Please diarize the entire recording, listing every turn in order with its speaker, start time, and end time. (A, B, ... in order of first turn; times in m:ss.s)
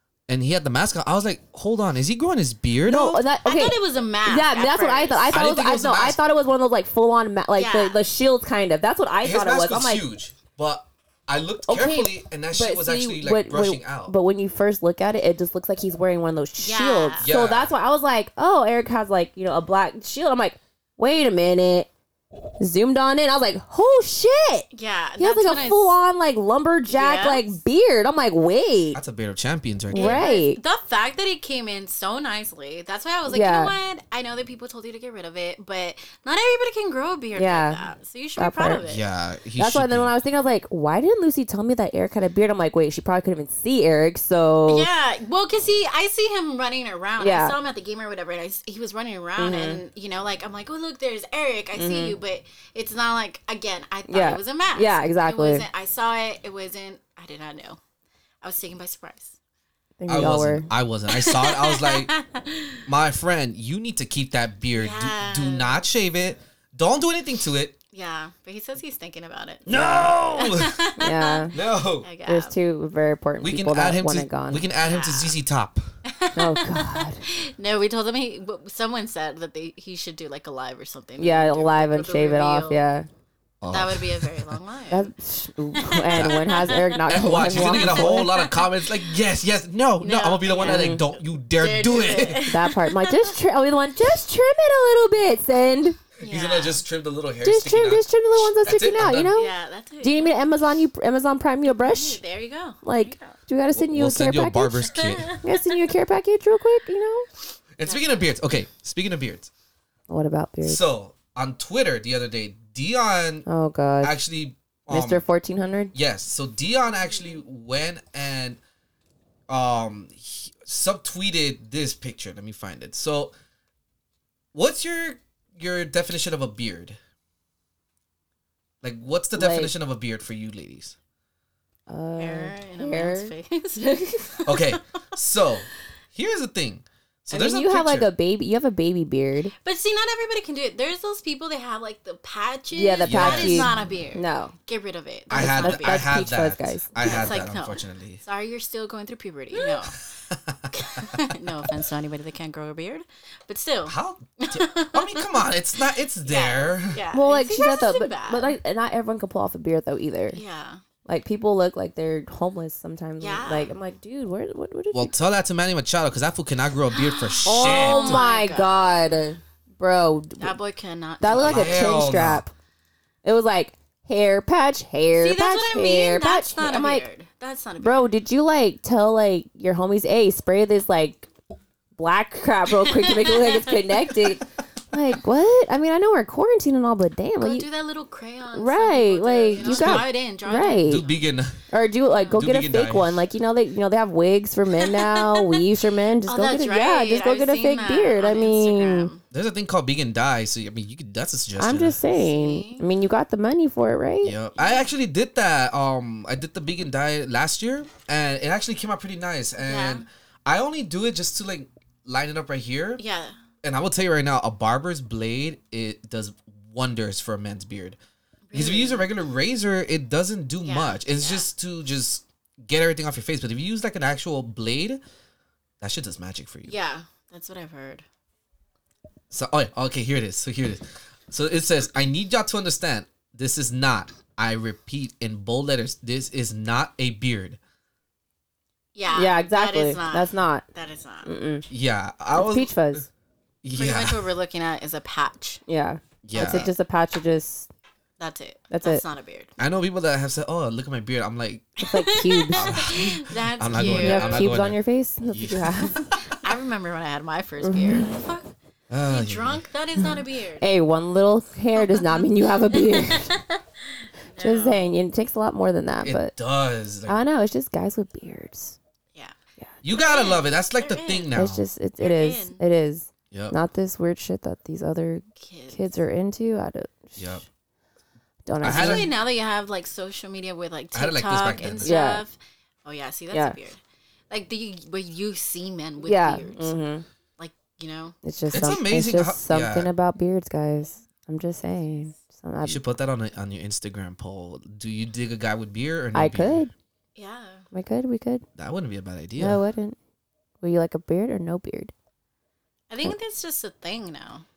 0:00.3-0:03.2 A
0:02.8-0:10.0 B
0:03.4-0:05.4 C
0:05.3-0:06.2 A
0:07.5-0:08.0 C
0:09.2-0:14.1 A
0:11.7-0:21.9 B
0:16.6-0:17.3 C
0:17.2-0:17.7 A
0:22.6-0:24.7 B
0:24.7-0:26.0 C
0:25.2-0:29.0 B
0:26.9-0:27.6 C
0:28.9-0:30.3 A
0:29.9-0:30.6 B
0:29.9-0:39.0 C
0:33.3-0:33.7 B
0:37.4-0:37.8 B
0:38.4-0:38.8 B
0:38.8-0:40.1 A
0:39.6-0:44.9 B
0:44.7-0:57.8 C
0:47.2-0:47.6 B
0:49.4-0:49.8 B
0:51.8-0:52.2 B
0:54.1-0:55.6 B
0:58.4-0:59.4 C
1:00.0-1:00.7 B
1:00.1-1:02.1 A
1:01.1-1:02.8 C
1:02.8-1:07.8 A
1:04.7-1:05.8 C
1:07.9-1:12.6 C
1:09.6-1:10.8 A
1:11.0-1:11.5 B
1:11.5-1:12.1 A
1:12.2-1:14.6 B
1:13.4-1:15.8 A
1:14.8-1:15.4 C
1:16.0-1:22.8 C
1:16.4-1:17.2 B
1:21.2-1:23.1 B
1:23.6-1:24.6 A
1:23.7-1:25.1 C
1:24.9-1:28.3 B
1:25.8-1:28.6 C
1:26.1-1:26.4 A
1:27.1-1:32.5 A
1:30.0-1:33.3 C
1:30.6-1:31.0 B
1:32.5-1:36.0 B
1:36.2-1:36.8 C
1:36.2-1:39.4 A
1:37.4-1:39.5 B
1:39.3-1:40.4 C
1:40.0-1:42.2 B
1:41.7-1:43.3 C
1:42.8-1:47.2 B
1:43.7-1:45.3 A
1:44.9-1:45.5 C
1:47.8-1:49.5 A
1:47.8-1:48.3 C
1:50.1-1:50.8 B
1:50.6-1:53.5 A
1:53.4-1:54.2 B
1:54.0-1:55.2 A
1:54.9-1:55.9 B
1:55.9-1:58.6 A
1:59.5-2:03.3 A
2:04.5-2:07.0 A
2:08.8-2:11.0 A
2:09.4-2:09.7 B
2:11.9-2:14.1 B
2:12.2-2:14.8 C
2:14.4-2:18.1 A
2:17.3-2:19.5 B
2:19.6-2:26.2 C
2:22.7-2:24.5 B
2:23.0-2:23.8 A
2:25.3-2:28.2 A
2:25.3-2:27.0 B
2:27.0-2:30.0 C
2:29.5-2:31.1 A
2:30.7-2:35.5 C
2:33.8-2:37.0 A
2:36.2-2:38.6 C
2:37.1-2:40.4 B
2:40.3-2:40.8 C
2:41.0-2:45.1 B
2:43.2-2:43.7 C
2:44.9-2:48.2 A
2:47.0-2:49.0 C
2:47.4-2:50.6 B
2:50.4-2:52.1 C
2:51.2-2:52.5 B
2:51.3-2:52.4 A
2:53.2-2:57.0 B
2:55.1-2:58.1 C
2:57.8-3:01.3 B
3:02.0-3:07.7 B
3:02.9-3:03.8 C
3:07.4-3:11.2 C
3:08.5-3:11.0 B
3:09.6-3:10.1 A
3:10.8-3:11.6 A
3:11.7-3:19.1 B
3:12.1-3:12.4 C
3:12.3-3:13.2 A
3:14.8-3:15.5 C
3:16.3-3:19.2 C
3:19.3-3:22.0 A
3:21.6-3:24.3 B
3:22.1-3:22.8 C
3:24.2-3:33.0 A
3:24.6-3:24.9 C
3:29.6-3:30.0 C
3:33.0-3:33.4 C
3:33.6-3:38.0 A
3:38.5-3:39.1 C
3:38.5-3:45.0 A
3:40.6-3:41.5 C
3:45.8-3:46.7 A
3:46.6-3:48.0 C
3:49.3-3:57.6 A
3:58.9-4:01.3 C
3:59.1-4:00.6 B
4:01.2-4:01.6 B
4:01.7-4:03.0 A
4:02.3-4:03.1 B
4:03.6-4:04.2 A
4:03.7-4:05.6 C
4:05.7-4:07.7 B
4:06.2-4:06.7 A
4:08.2-4:09.5 C
4:08.7-4:09.0 B
4:09.6-4:11.7 A
4:11.8-4:14.5 C
4:11.8-4:12.7 B
4:12.5-4:16.4 A
4:13.8-4:16.1 B
4:16.3-4:18.5 C
4:17.6-4:18.1 B
4:18.9-4:19.6 A
4:19.1-4:20.7 C
4:20.6-4:23.4 B
4:21.8-4:23.4 C
4:24.3-4:24.9 C
4:24.4-4:26.3 B
4:26.0-4:27.2 A
4:27.1-4:28.8 B
4:29.8-4:31.7 A
4:29.9-4:31.3 C
4:31.3-4:37.4 B
4:32.0-4:32.6 C
4:35.4-4:35.9 C
4:37.2-4:37.4 A
4:38.4-4:39.1 B
4:38.6-4:39.1 A
4:38.6-4:46.8 C
4:40.9-4:42.0 A
4:41.8-4:42.2 B
4:46.0-4:47.0 B
4:47.4-4:48.2 C
4:48.2-4:52.8 B
4:48.5-4:49.9 A
4:52.6-4:56.6 A
4:56.1-4:56.7 B
4:57.2-4:57.6 C
4:57.7-4:58.4 B
4:58.6-4:59.6 A
4:59.4-5:00.0 B
5:00.6-5:01.9 B
5:02.9-5:04.4 C